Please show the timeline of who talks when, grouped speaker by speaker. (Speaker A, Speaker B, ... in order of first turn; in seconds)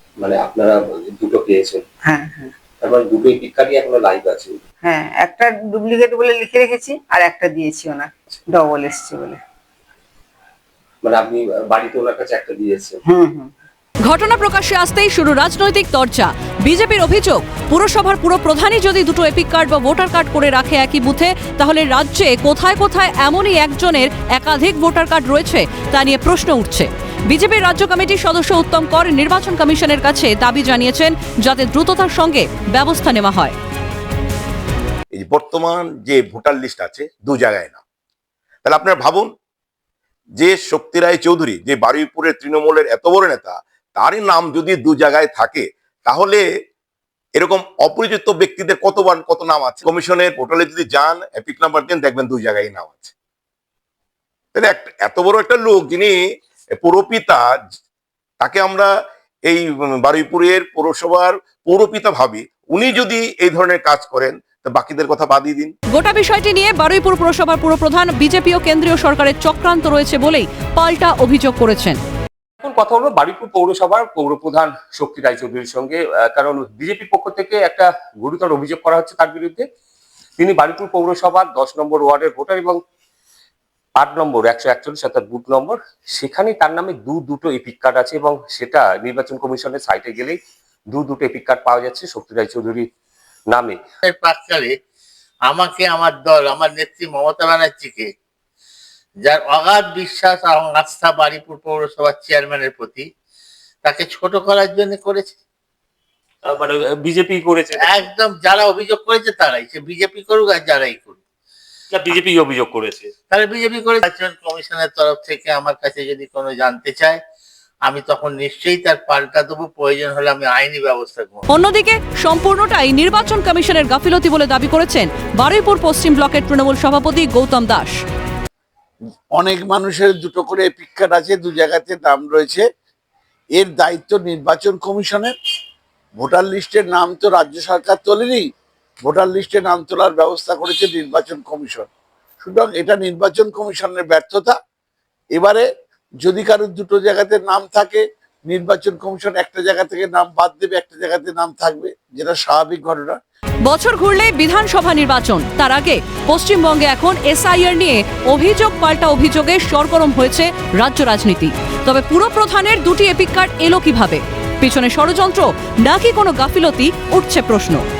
Speaker A: 0.2-1.8, 2.8-4.6, 11.0-13.0, 72.6-79.7, 80.4-82.8, 84.0-90.4, 90.9-92.9, 93.5-93.8, 106.5-108.0, 111.9-113.1
Speaker B: 2.0-2.5, 4.8-9.4, 13.1-13.5
Speaker C: 14.0-33.6, 65.9-72.0, 121.5-128.0, 153.6-167.8
Speaker D: 35.1-37.8, 38.6-39.3, 40.4-46.4, 47.4-53.1, 54.5-56.2, 56.8-57.4, 58.4-58.9, 59.5-65.7
Speaker E: 94.0-94.7, 95.5-98.1, 99.2-103.1, 103.8-105.3, 107.8-111.2, 113.3-117.2, 117.8-121.5
Speaker F: 129.4-132.6, 133.6-135.3, 136.2-138.5, 139.1-141.9, 142.4-144.5, 145.4-145.6, 146.2-153.2